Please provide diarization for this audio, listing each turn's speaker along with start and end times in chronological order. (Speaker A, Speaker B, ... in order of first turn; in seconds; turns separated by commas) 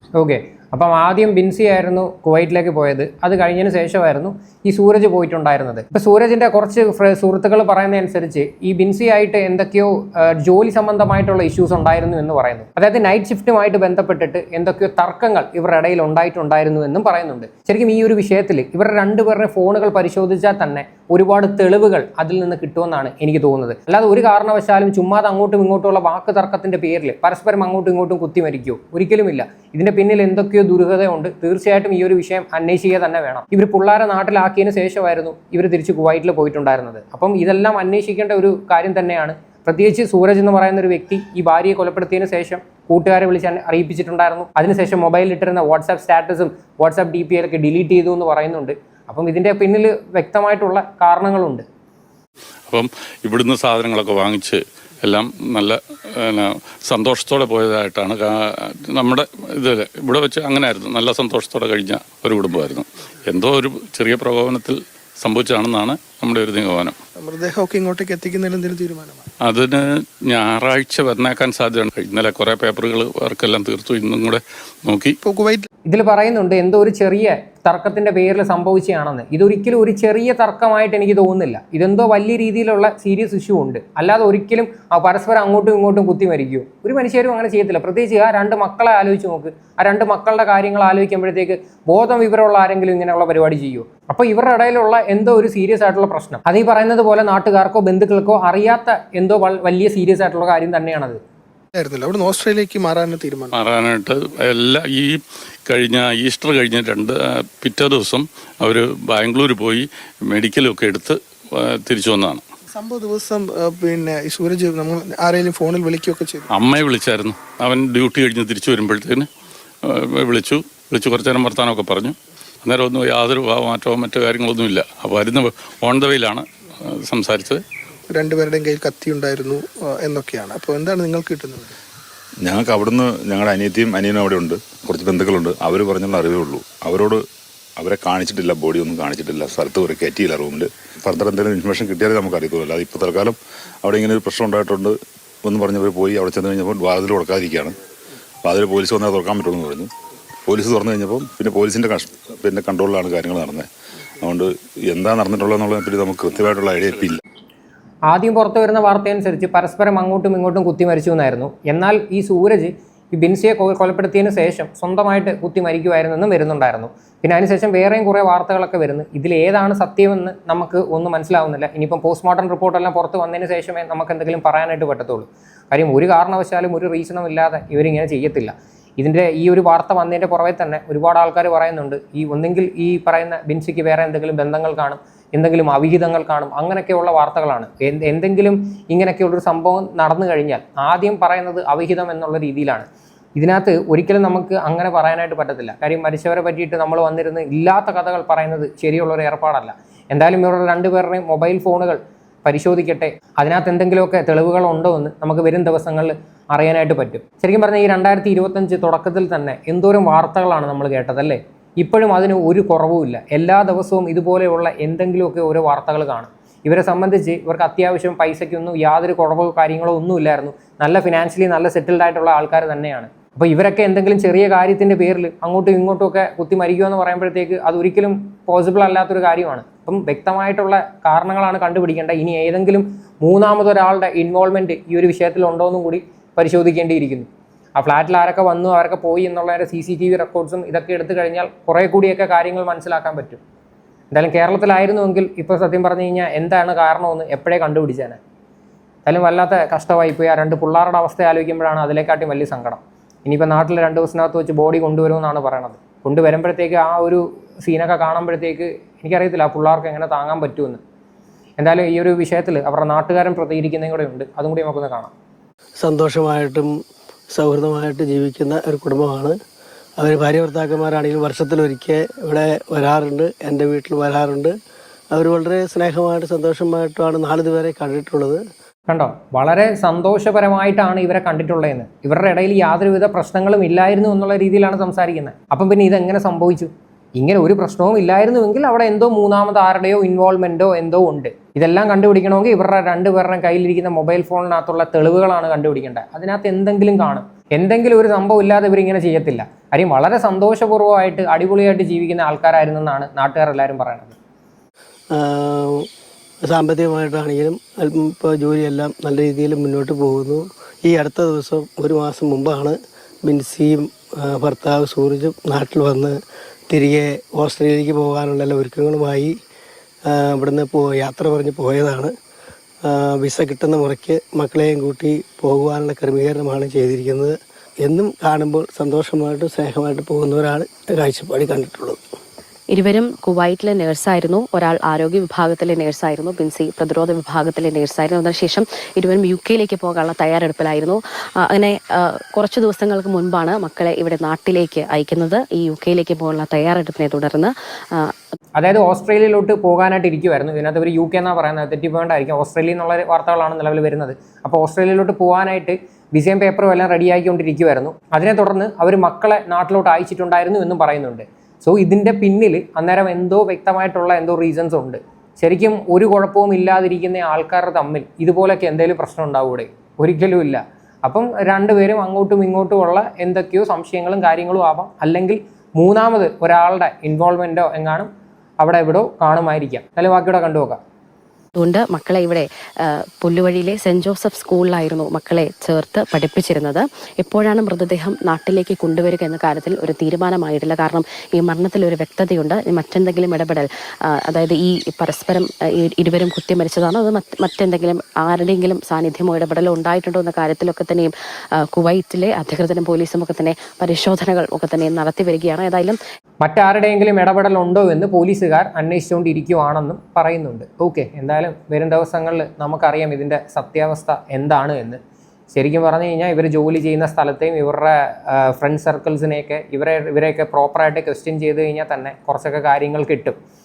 Speaker A: 0.2-51.6, Speaker B: 52.7-67.0, Speaker C: 67.2-69.2, Speaker B: 69.5-75.1, Speaker C: 75.2-75.7, Speaker A: 75.8-101.2, Speaker C: 101.7-103.5, Speaker B: 103.5-112.4, Speaker C: 112.8-116.5, Speaker B: 116.5-119.3, Speaker B: 119.8-126.4, Speaker B: 127.0-127.6, Speaker C: 128.1-131.7, Speaker D: 132.4-137.2, Speaker D: 137.8-147.7, Speaker D: 148.4-149.9, Speaker D: 150.5-153.7, Speaker D: 154.2-157.2, Speaker A: 158.1-243.4, Speaker A: 244.1-248.2, Speaker A: 249.1-260.8, Speaker A: 261.6-265.1, Speaker E: 265.8-266.7, Speaker E: 267.3-269.4, Speaker E: 270.0-274.5, Speaker E: 275.1-278.4, Speaker A: 278.9-304.1, Speaker E: 305.1-305.9, Speaker E: 306.5-316.2, Speaker E: 316.7-319.3, Speaker E: 320.1-322.1, Speaker E: 322.9-332.0, Speaker F: 332.7-348.1, Speaker A: 348.6-378.1, Speaker A: 378.6-380.8, Speaker F: 381.6-406.0, Speaker A: 406.4-415.0, Speaker A: 415.5-423.4